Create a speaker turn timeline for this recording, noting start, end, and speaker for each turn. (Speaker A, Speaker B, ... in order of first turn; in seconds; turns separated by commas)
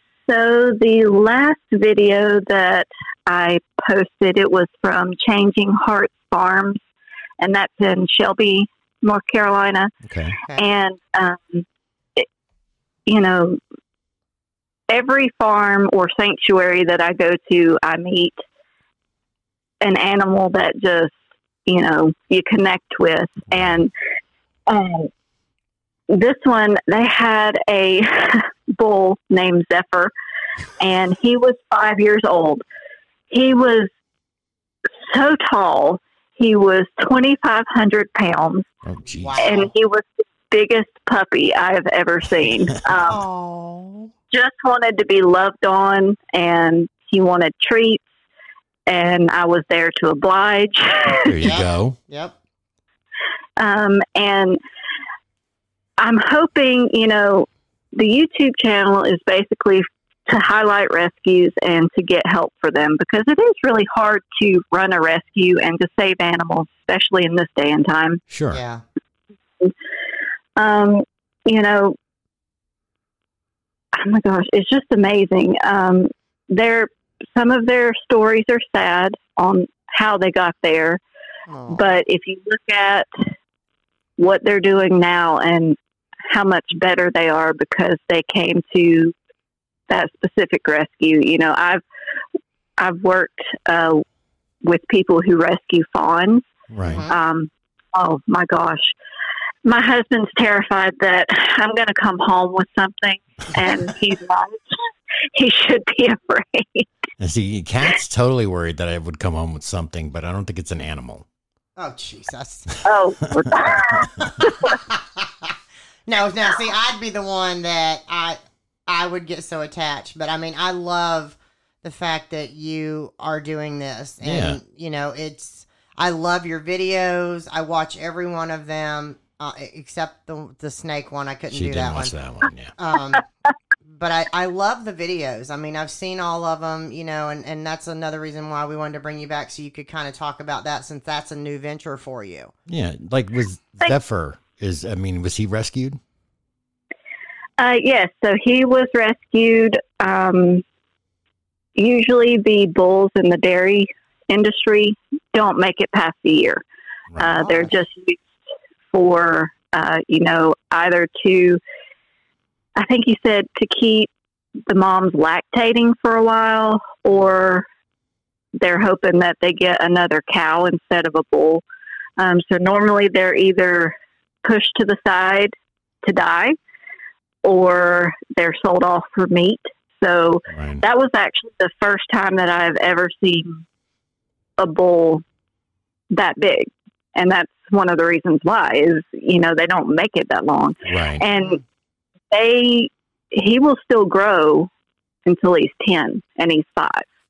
Speaker A: 0.3-6.8, Speaker A: 7.4-9.9, Speaker B: 10.1-10.4, Speaker A: 10.6-11.7, Speaker A: 13.1-13.6, Speaker A: 14.9-18.4, Speaker A: 19.8-21.1, Speaker A: 21.7-23.9, Speaker A: 24.7-25.1, Speaker A: 26.1-30.1, Speaker A: 30.8-32.6, Speaker A: 33.3-33.9, Speaker A: 35.0-38.7, Speaker B: 38.9-39.4, Speaker C: 39.1-39.7, Speaker A: 39.4-43.2, Speaker C: 43.1-44.1, Speaker A: 44.3-48.0, Speaker A: 48.9-51.3, Speaker B: 51.3-52.0, Speaker C: 51.4-52.4, Speaker A: 53.6-54.6, Speaker A: 56.0-68.2, Speaker B: 68.3-68.6, Speaker C: 68.5-68.8, Speaker A: 70.6-72.0, Speaker A: 74.0-81.0, Speaker C: 81.5-81.8, Speaker A: 81.7-83.1, Speaker A: 84.2-85.8, Speaker A: 86.3-89.1, Speaker A: 89.9-91.8, Speaker A: 92.8-94.0, Speaker A: 94.6-96.5, Speaker B: 96.7-97.0, Speaker C: 96.9-97.1, Speaker A: 97.1-98.9, Speaker A: 99.7-104.8, Speaker A: 105.3-106.9, Speaker B: 107.2-111.3, Speaker C: 111.8-112.8, Speaker A: 112.8-114.7, Speaker B: 113.4-113.8, Speaker C: 114.2-115.5, Speaker C: 116.1-132.1, Speaker B: 124.2-124.6, Speaker B: 131.5-132.7, Speaker C: 132.8-133.2, Speaker C: 133.9-142.5, Speaker B: 142.7-146.0, Speaker A: 147.6-150.6, Speaker A: 151.8-156.6, Speaker B: 157.1-157.4, Speaker A: 157.2-158.2, Speaker A: 158.9-161.6, Speaker A: 162.8-164.1, Speaker A: 164.7-167.7, Speaker A: 168.6-171.6, Speaker A: 172.2-173.9, Speaker A: 174.4-175.5, Speaker A: 176.1-176.6, Speaker A: 177.4-183.6, Speaker B: 180.5-180.8, Speaker A: 184.6-185.2, Speaker A: 186.1-191.6, Speaker B: 190.9-191.2, Speaker A: 192.3-194.7, Speaker A: 195.3-197.1